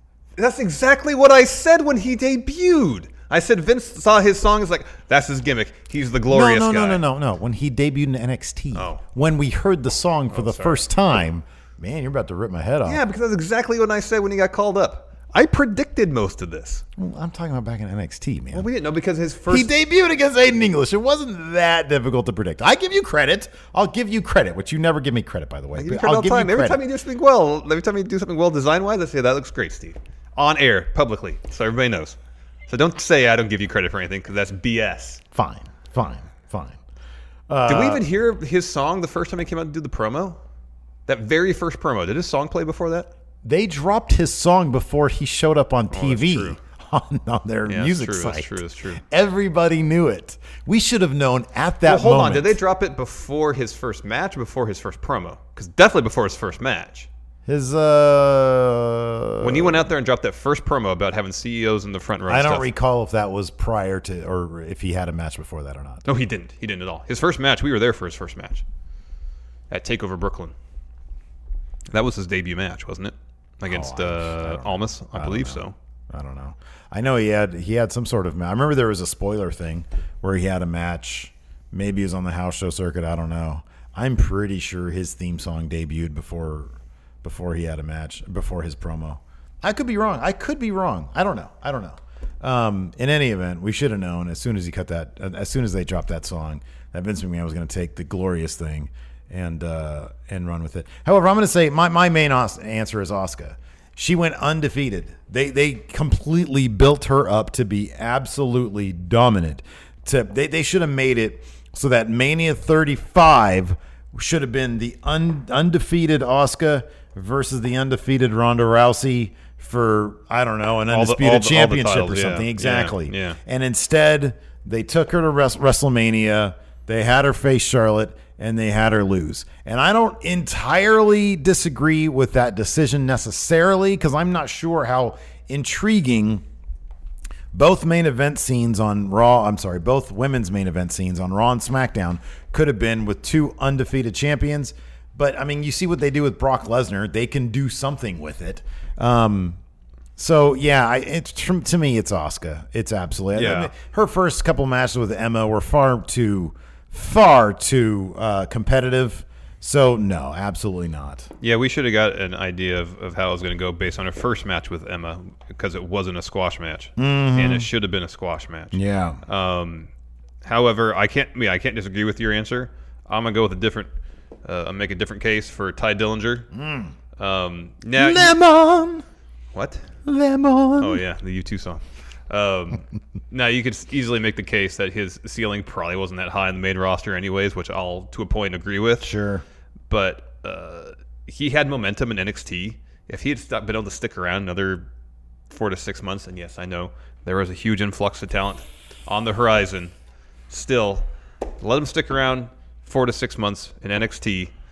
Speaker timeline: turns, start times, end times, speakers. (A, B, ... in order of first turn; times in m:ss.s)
0:00.4-0:07.0 A
0:06.3-0:13.0 B
0:08.7-0:09.0 A
0:10.3-0:11.0 A
0:12.8-0:16.8 A
0:17.0-0:18.7 B
0:18.5-0:19.7 A
0:19.5-0:26.8 B
0:25.7-0:32.2 A
0:32.7-0:35.2 A
0:35.3-0:36.8 B
0:37.5-0:38.0 B
0:37.6-0:40.4 A
0:41.1-0:43.1 A
0:43.4-0:52.6 B
0:45.9-0:46.6 A
0:47.6-0:49.0 A
0:51.8-0:57.1 A
0:57.4-0:59.9 B
0:59.4-1:02.7 A
1:02.3-1:06.0 B
1:06.0-1:08.6 A
1:09.7-1:10.5 A
1:11.9-1:15.7 A
1:13.6-2:16.4 B
2:00.9-2:03.4 A
2:17.5-2:29.6 B
2:30.2-2:41.3 B
2:33.3-2:33.7 A
2:41.4-2:49.9 A
2:47.0-2:47.7 B
2:48.7-2:49.2 B
2:50.4-2:53.9 A
2:54.4-2:56.5 A
2:56.5-2:56.9 B
2:57.2-2:58.4 A
2:57.9-2:59.0 B
2:59.5-2:59.8 A
3:00.0-3:01.0 B
3:00.8-3:09.1 A
3:09.0-3:09.4 B
3:09.9-3:14.9 A
3:15.5-3:19.9 A
3:20.5-3:21.0 A
3:21.6-3:24.5 A